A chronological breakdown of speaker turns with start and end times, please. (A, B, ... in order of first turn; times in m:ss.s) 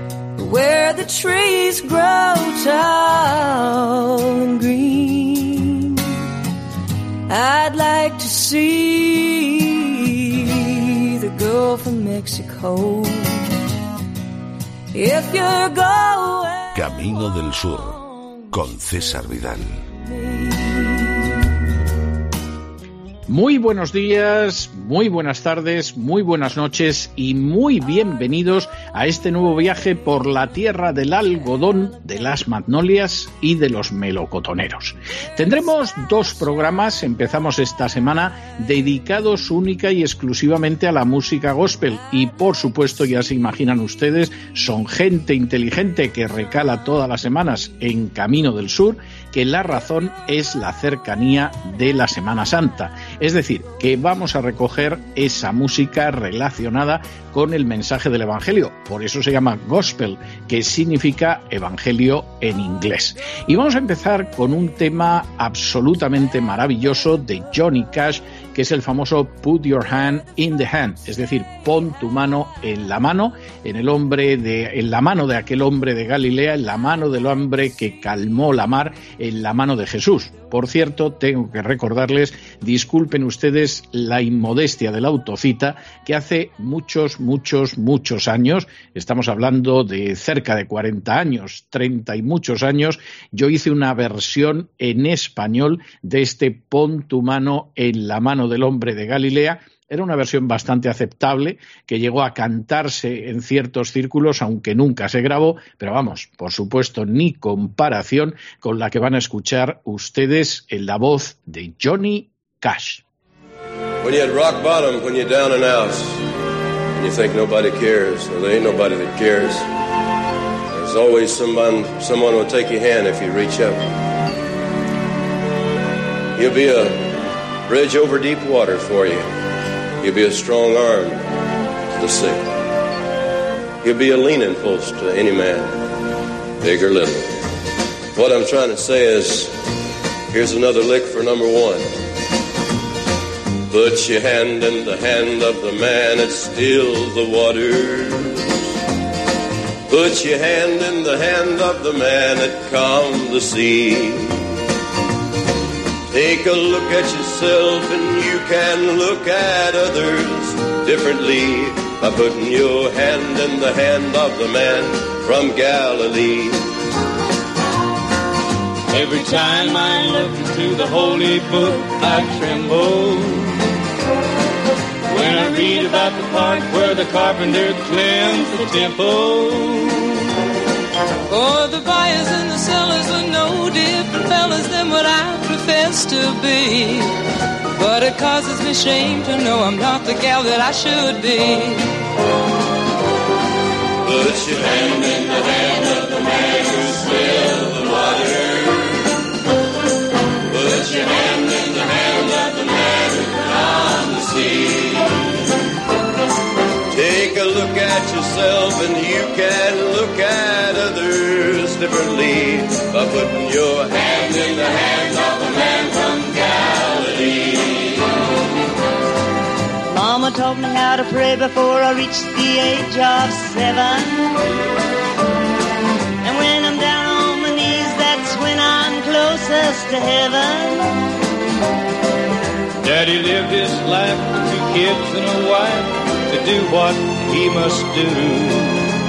0:00.4-0:06.3 A
0:07.3-0:13.6 A
0:14.9-0:16.7 A
0:16.7-0:19.8 B
0:20.3-0:21.4 A
0:23.3-1:53.0 C
1:54.0-1:56.2 D
1:56.9-1:59.7 D
2:00.7-2:03.8 D
2:06.4-2:07.0 D
2:07.7-2:09.3 D
2:10.0-2:11.2 D
2:12.0-2:12.4 D
2:13.8-2:15.8 D
2:16.6-2:17.5 D
2:18.2-2:19.5 D
2:20.3-2:21.8 D
2:23.7-2:28.7 D
2:29.9-2:34.5 D
2:36.1-2:46.7 D
2:48.9-2:53.6 E
2:55.1-3:00.3 E
3:01.3-3:07.2 A
3:07.7-3:11.9 A
3:14.0-3:19.1 D
3:20.5-3:25.2 D
3:26.9-3:37.9 D
3:39.9-3:44.5 F
3:46.2-3:51.0 F
3:52.8-3:58.9 E